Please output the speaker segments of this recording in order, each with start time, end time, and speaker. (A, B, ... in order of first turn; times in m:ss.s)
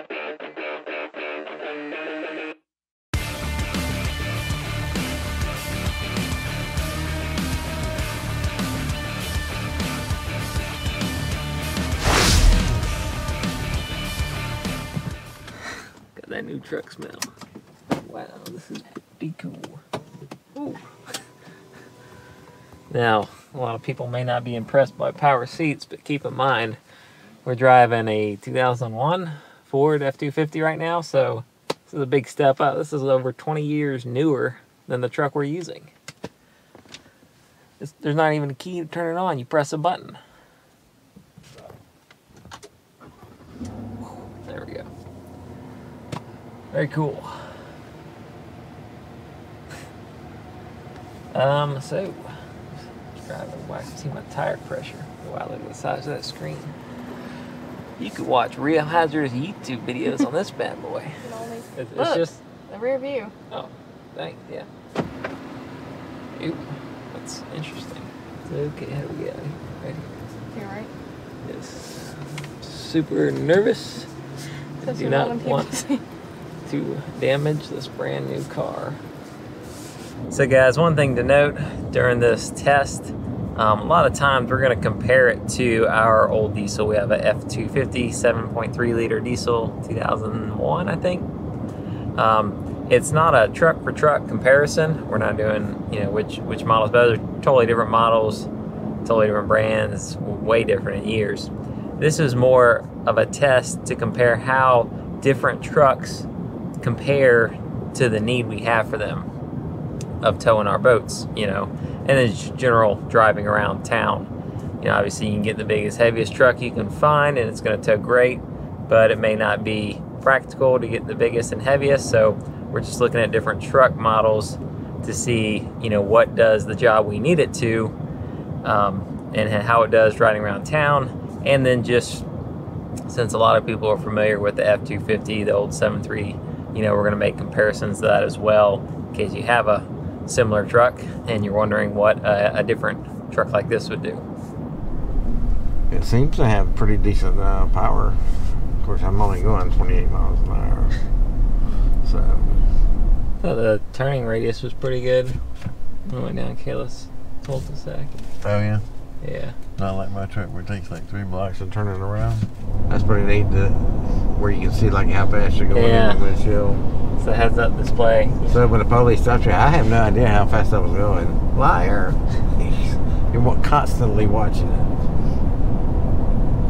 0:16.1-0:17.3 A
0:17.9-0:19.8 A
0:20.6-0:20.9 A
0:22.9-0:26.8 A
0:27.4-0:35.9 A
0:37.8-0:40.2 A
0:44.0-0:44.9 A
0:46.7-0:47.5 A
0:51.3-0:52.3 A
0:53.2-0:56.7 A
0:58.0-1:02.4 A
1:01.2-1:03.3 B
1:03.5-1:04.7 A
1:06.4-1:10.2 A
1:10.5-1:10.9 B
1:11.4-1:14.1 A
1:14.8-1:15.8 A
1:14.9-1:16.0 B
1:16.6-1:19.0 A
1:20.3-1:31.3 A
1:32.2-1:38.5 A
1:39.0-1:46.3 A
1:46.8-1:49.3 A
1:50.2-1:54.3 A
1:54.8-2:08.0 A
2:08.6-2:12.3 A
2:13.1-2:24.2 A
2:25.9-2:28.2 C
2:28.8-2:31.0 C
2:32.0-2:32.6 C
2:33.4-2:35.4 A
2:36.1-2:38.2 A
2:38.4-2:38.8 C
2:39.2-2:39.6 A
2:39.8-2:46.8 C
2:45.7-2:46.3 A
2:47.2-2:48.6 A
2:48.5-2:54.9 C